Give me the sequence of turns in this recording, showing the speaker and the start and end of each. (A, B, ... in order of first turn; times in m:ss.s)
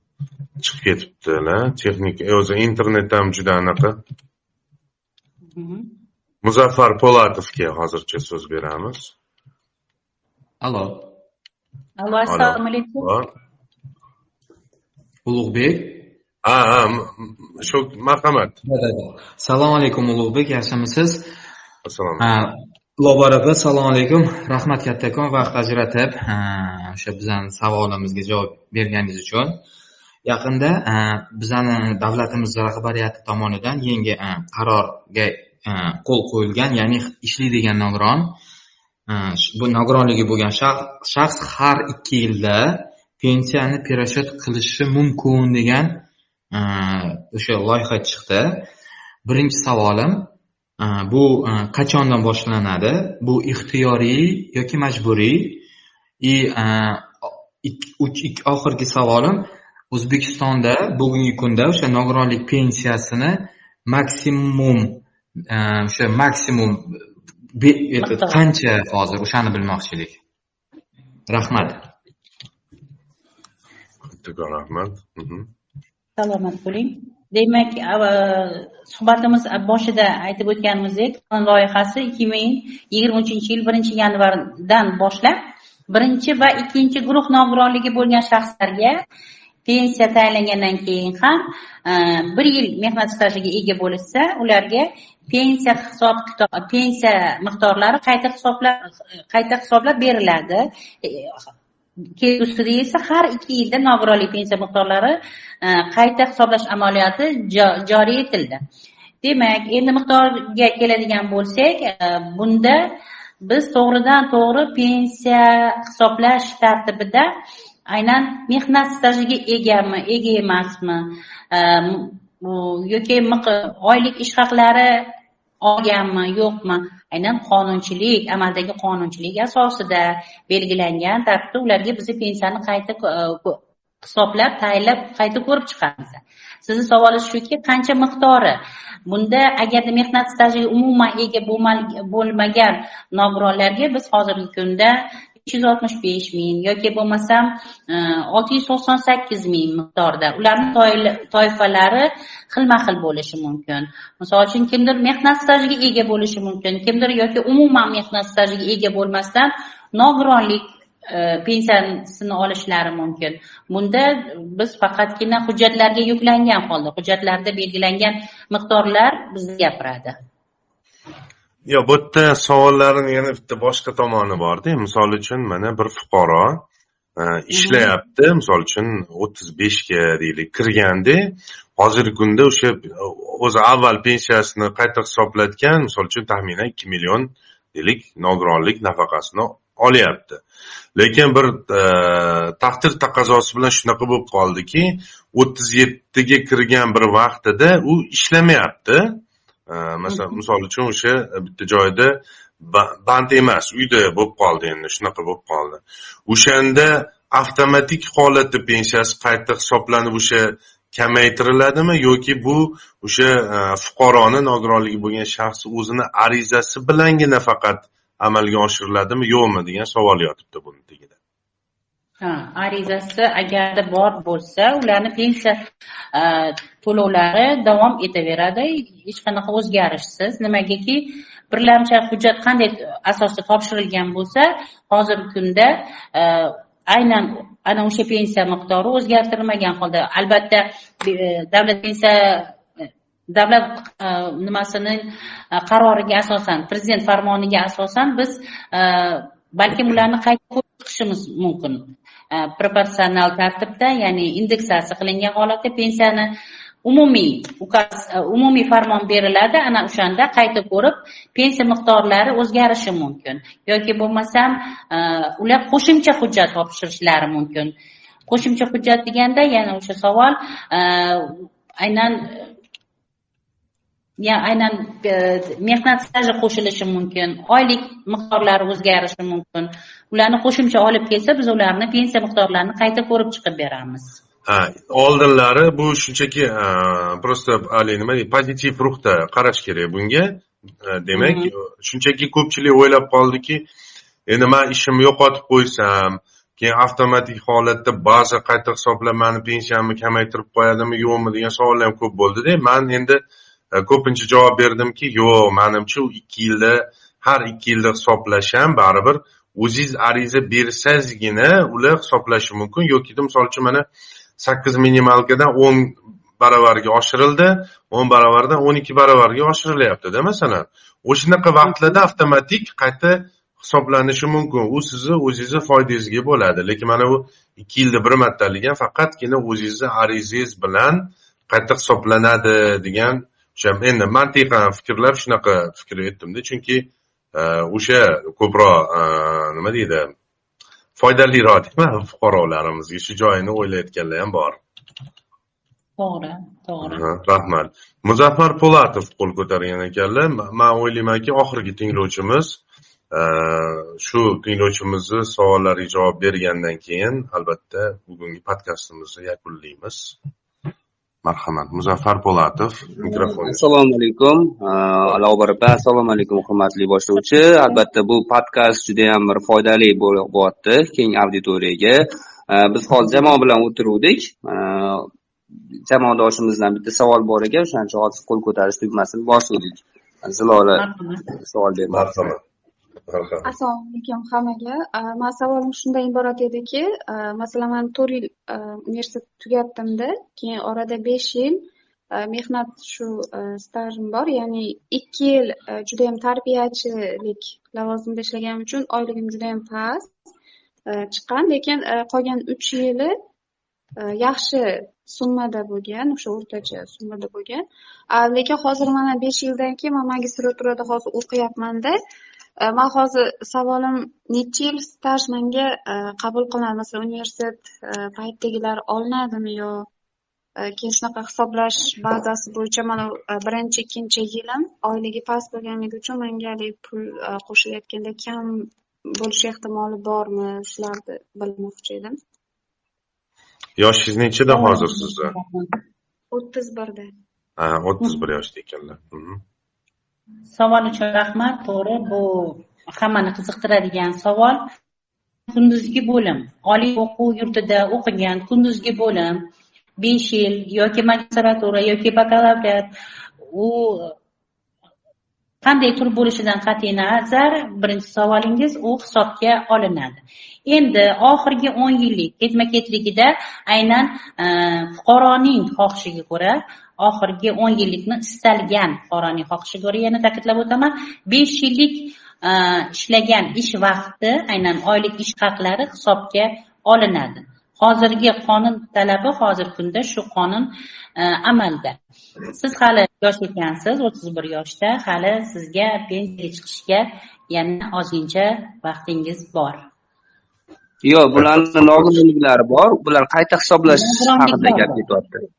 0:00.6-0:04.0 A
0:05.6-0:05.9 B
0:06.4-0:09.1 A
0:10.6-0:11.1 C
0:12.0-0:13.1 B
0:12.3-0:13.3 A
0:15.3-0:16.1 C
0:16.4-0:18.6 A
0:18.6-0:21.3 C
0:21.8-0:22.3 A
0:22.2-0:29.6 C
0:30.2-0:38.4 C
0:39.1-0:48.7 C
0:49.2-0:55.6 C
0:56.2-1:07.0 C
1:07.6-1:10.2 C
1:08.0-1:08.4 B
1:11.3-1:11.9 C
1:14.1-1:15.5 A
1:16.2-1:25.4 B
1:25.9-1:29.0 B
1:29.7-1:41.4 B
1:42.2-1:48.6 B
1:49.2-1:52.8 B
1:53.4-1:57.3 B
1:57.9-2:05.0 B
2:05.6-2:18.6 B
2:19.1-2:50.2 B
2:51.7-3:10.4 A
2:57.5-2:57.9 B
3:11.0-3:41.1 A
3:42.2-3:45.6 B
3:46.1-4:02.5 B
4:03.3-4:05.0 B
4:05.6-4:16.3 B
4:16.8-4:27.7 B
4:28.3-4:32.5 B
4:34.2-4:44.2 B
4:44.5-4:53.7 A
4:51.1-4:51.5 B
4:54.3-5:13.9 A
5:14.4-5:40.1 A
5:21.6-5:22.0 B
5:41.0-5:44.6 A
5:46.0-5:47.0 B
5:46.8-6:00.2 A
6:01.2-6:03.7 A
6:03.0-6:15.1 D
6:15.8-6:20.8 D
6:20.8-6:21.3 B
6:21.4-6:22.4 D
6:21.9-6:22.4 A
6:23.1-6:23.5 A
6:23.5-6:31.6 E
6:32.2-6:40.1 E
6:40.9-6:43.1 E
6:44.1-6:52.0 E
6:52.7-6:59.8 E
7:00.7-7:12.2 E
7:13.8-7:15.4 A
7:14.5-7:15.8 B
7:16.3-7:17.1 E
7:17.6-7:19.4 A
7:20.5-7:24.6 B
7:25.5-7:29.4 B
7:30.0-7:32.9 B
7:33.5-7:34.1 B
7:35.6-8:02.0 B
8:02.5-8:09.8 B
8:11.0-8:15.4 D
8:11.3-8:12.2 A
8:13.9-8:15.1 B